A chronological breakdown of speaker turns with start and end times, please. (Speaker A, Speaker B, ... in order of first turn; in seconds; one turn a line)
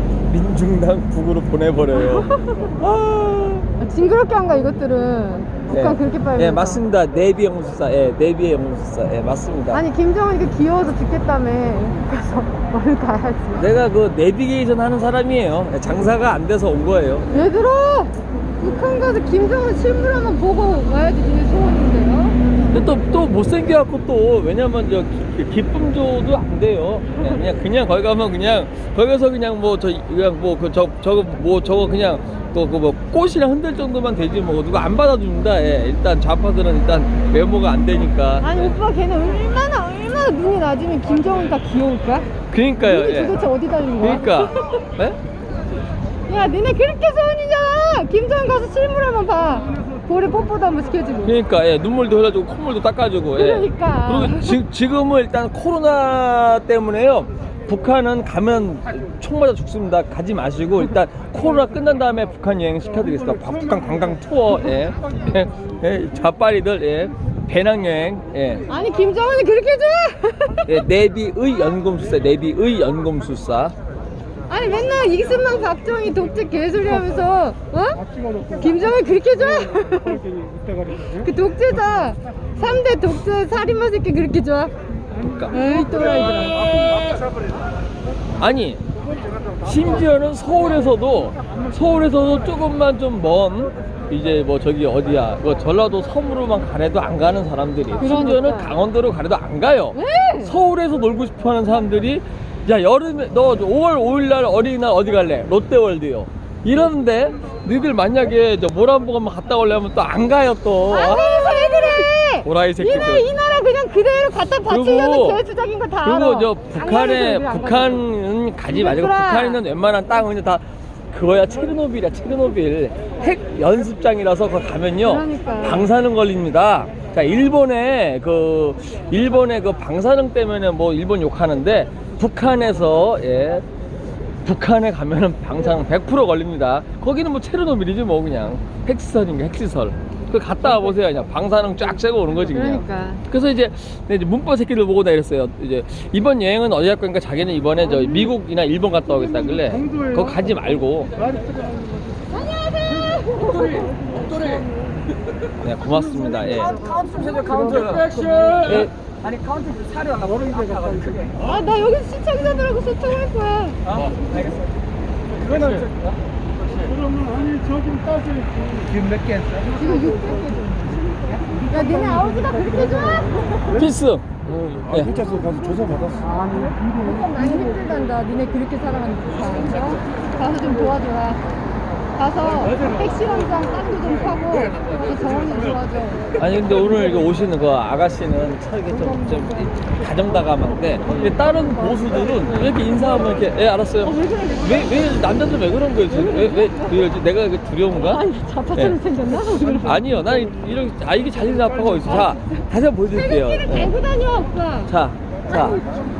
Speaker A: 0.3-3.7
Speaker B: 2.0-2.7
Speaker B: 3.8-6.8
Speaker A: 5.7-9.8
Speaker B: 9.7-13.7
Speaker A: 13.6-17.3
Speaker B: 17.3-22.6
Speaker A: 22.7-38.7
Speaker B: 38.4-44.8
Speaker A: 42.5-43.4
Speaker A: 44.0-45.2
Speaker B: 46.3-51.4
Speaker A: 51.2-68.7
Speaker B: 53.3-54.6
Speaker B: 68.7-70.8
Speaker A: 70.7-73.7
Speaker B: 74.5-80.3
Speaker B: 81.0-84.7
Speaker A: 85.2-85.7
Speaker B: 85.5-86.9
Speaker A: 88.4-88.8
Speaker A: 89.6-113.3
Speaker B: 98.0-98.7
Speaker B: 99.9-100.5
Speaker B: 110.9-118.0
Speaker A: 114.7-115.4
Speaker A: 116.0-133.6
Speaker B: 118.6-119.6
Speaker B: 125.0-125.8
Speaker A: 134.4-151.2
Speaker B: 142.5-143.2
Speaker B: 152.3-153.9
Speaker A: 155.6-161.3
Speaker C: 156.9-158.6
Speaker C: 160.2-161.1
Speaker B: 161.4-163.8
Speaker A: 163.8-164.6
Speaker A: 165.4-166.1
Speaker C: 167.0-169.5
Speaker B: 169.5-173.9
Speaker A: 173.7-174.2
Speaker A: 174.9-175.1
Speaker B: 175.0-181.4
Speaker B: 182.2-186.3
Speaker A: 186.4-199.0
Speaker B: 191.1-192.8
Speaker B: 194.1-194.8
Speaker B: 196.2-196.9
Speaker B: 197.9-200.0
Speaker A: 199.7-203.9
Speaker B: 203.1-204.9
Speaker A: 204.9-205.8